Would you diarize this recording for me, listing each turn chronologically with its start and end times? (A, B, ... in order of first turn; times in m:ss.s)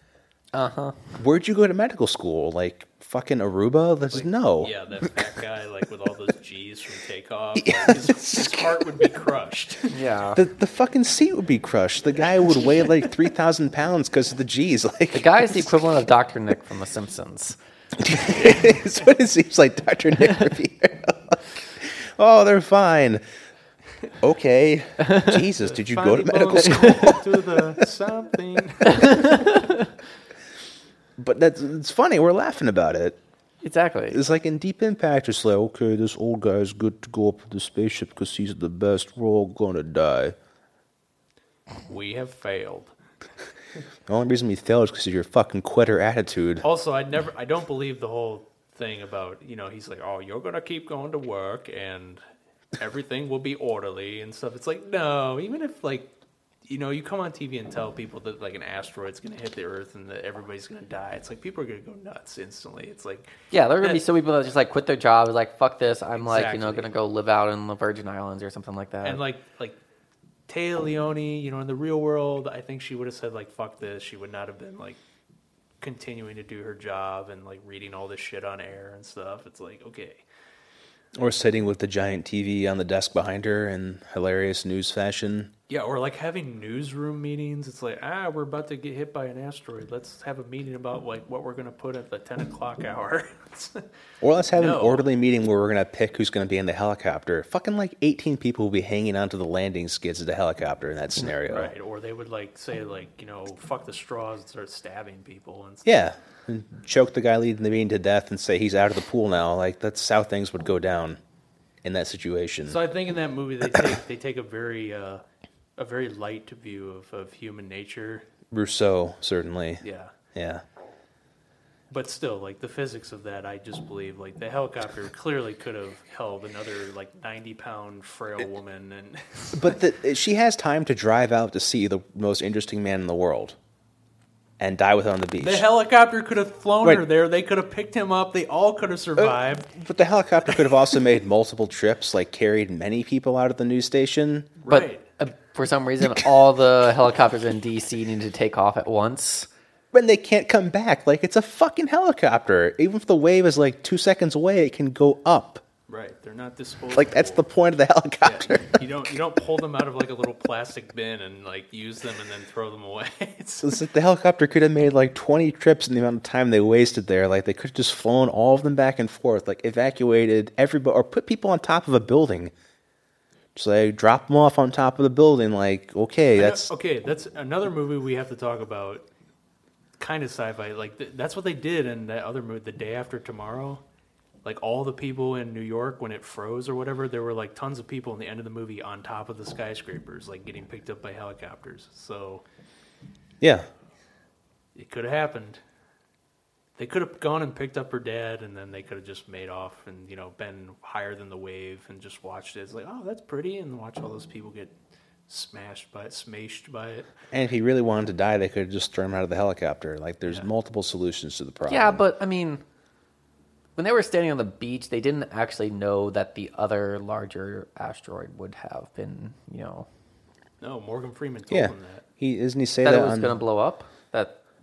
0:00.5-0:01.1 A
0:01.2-0:04.7 B
0:04.1-0:09.9 C
0:07.6-0:09.1 B
0:09.9-0:10.4 A
0:10.3-0:15.8 B
0:15.1-0:17.6 A
0:18.0-0:23.2 B
0:24.2-0:27.4 B
0:25.1-0:25.4 A
0:25.6-0:29.5 C
0:28.9-0:29.8 A
0:31.2-0:33.2 B
0:33.6-0:34.2 A
0:34.1-0:40.3 B
0:41.9-0:42.9 C
0:44.1-0:46.6 B
0:46.6-0:52.2 C
0:52.8-0:56.1 C
0:56.6-1:04.0 C
1:03.5-1:09.2 A
1:06.2-1:06.9 C
1:09.0-1:09.8 C
1:10.5-1:15.0 C
1:15.8-1:20.2 C
1:21.2-1:25.5 B
1:25.7-1:33.8 C
1:34.2-1:41.7 B
1:34.6-1:35.1 C
1:41.4-1:46.0 C
1:45.8-1:51.2 B
1:51.8-1:52.8 B
1:52.7-1:55.2 C
1:55.8-1:58.2 C
1:58.5-1:59.8 B
1:59.8-2:00.1 C
2:00.3-2:00.6 B
2:01.9-2:09.8 C
2:09.5-2:13.6 B
2:14.6-2:15.6 B
2:15.4-2:19.7 C
2:19.2-2:24.5 B
2:20.5-2:20.7 C
2:24.6-2:25.0 C
2:24.7-2:29.5 A
2:29.9-2:35.6 B
2:35.9-2:37.4 C
2:36.9-2:38.9 B
2:38.2-2:43.8 C
2:43.6-2:52.5 B
2:53.5-2:56.7 B
2:56.3-2:59.0 C
3:00.0-3:03.8 C
3:04.4-3:12.4 C
3:13.4-3:13.7 B
3:14.7-3:15.6 C
3:16.8-3:24.7 C
3:25.3-3:27.1 C
3:27.3-3:32.0 B
3:31.7-3:32.6 A
3:33.8-3:39.9 A
3:40.6-3:42.0 C
3:41.5-3:43.4 B
3:42.8-3:44.4 A